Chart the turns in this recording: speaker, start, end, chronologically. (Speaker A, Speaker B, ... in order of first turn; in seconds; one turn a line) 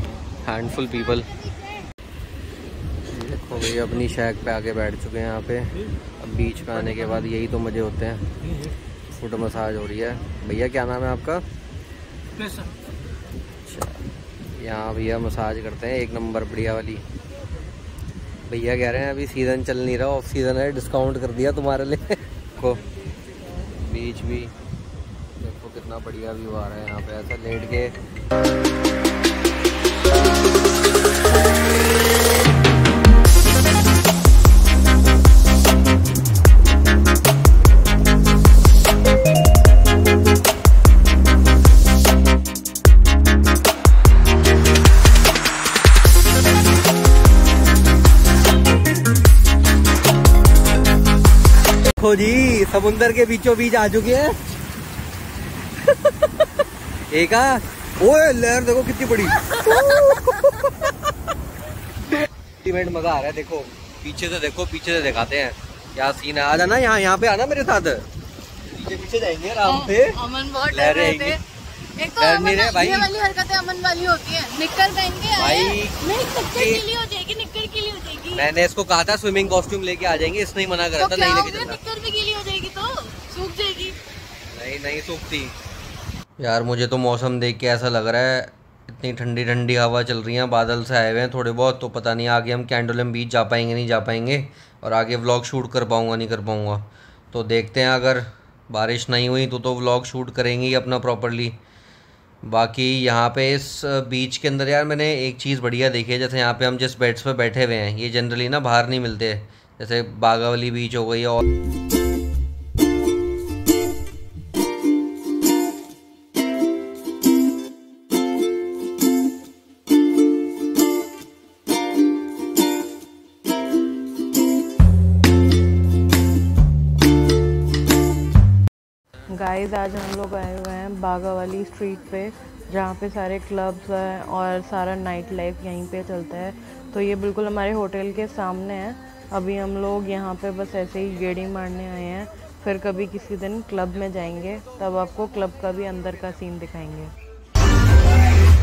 Speaker A: 0.4-1.3
Speaker A: 3.1-8.2
Speaker A: 9.1-11.4
Speaker A: 13.7-14.0
Speaker A: 14.6-17.0
Speaker A: 18.5-22.8
Speaker A: 23.8-24.5
Speaker A: 25.4-27.9
Speaker A: 52.0-54.4
Speaker A: 57.1-60.9
Speaker B: 59.5-60.6
Speaker A: 62.6-68.0
Speaker A: 68.7-70.2
Speaker B: 69.6-71.4
Speaker A: 70.7-71.4
Speaker B: 72.0-78.5
Speaker A: 72.2-73.1
Speaker A: 75.4-76.0
Speaker A: 76.5-76.8
Speaker A: 78.4-81.8
Speaker B: 81.0-84.0
Speaker A: 84.5-85.5
Speaker A: 86.4-101.6
Speaker A: 102.5-111.4
Speaker B: 129.3-147.1